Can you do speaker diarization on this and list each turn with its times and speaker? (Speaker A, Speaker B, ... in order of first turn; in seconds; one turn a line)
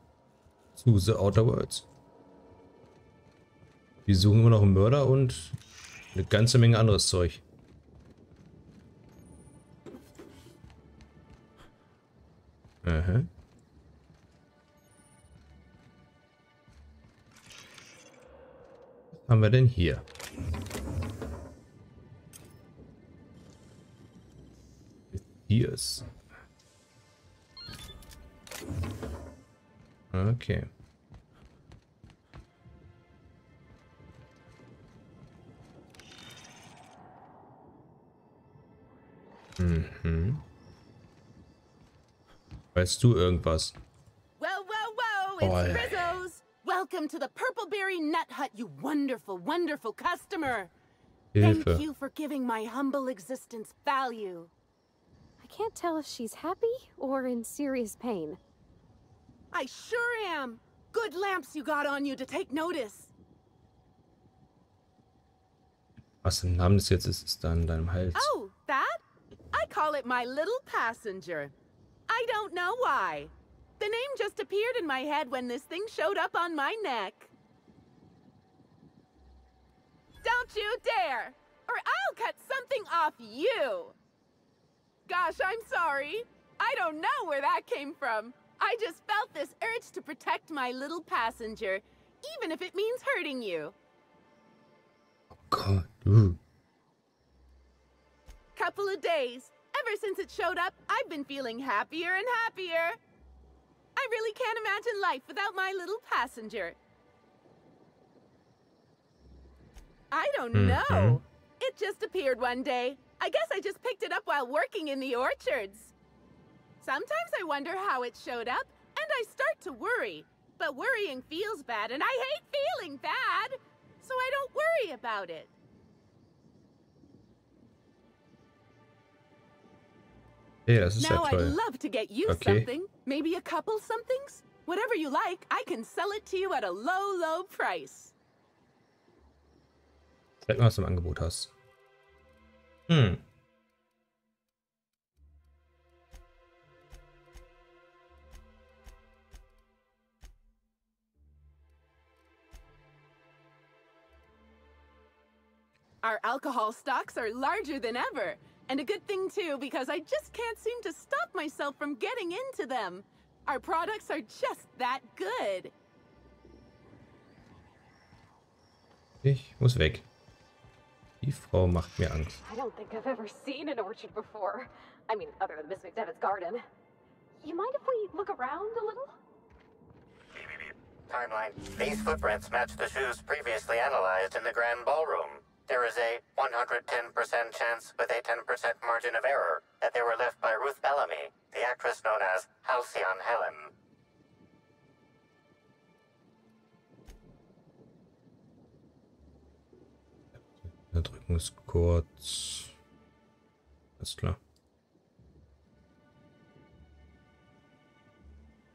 Speaker A: 0.8-1.9
Speaker A: 4.0-5.6
Speaker A: 6.1-7.4
Speaker A: 12.8-13.3
Speaker A: 19.1-20.0
Speaker A: 25.1-26.1
Speaker A: 30.1-30.7
Speaker A: 39.6-40.4
Speaker A: 42.7-43.8
Speaker B: 44.4-50.7
Speaker A: 45.4-46.2
Speaker A: 51.3-51.8
Speaker B: 51.4-54.5
Speaker C: 55.4-58.4
Speaker B: 59.5-63.1
Speaker A: 66.2-68.3
Speaker B: 68.1-71.5
Speaker B: 72.1-77.3
Speaker B: 80.2-84.0
Speaker B: 85.1-93.8
Speaker A: 95.3-96.4
Speaker B: 98.5-103.0
Speaker B: 104.0-106.8
Speaker B: 110.1-115.9
Speaker A: 110.5-111.2
Speaker B: 116.8-125.5
Speaker A: 130.7-131.6
Speaker B: 131.0-138.1
Speaker A: 132.2-132.7
Speaker A: 140.4-141.5
Speaker A: 142.9-143.2
Speaker B: 156.0-165.7
Speaker A: 169.2-170.1
Speaker A: 171.2-172.4
Speaker C: 172.4-176.6
Speaker C: 177.4-179.2
Speaker D: 181.1-193.7
Speaker A: 200.3-202.7
Speaker A: 204.0-204.4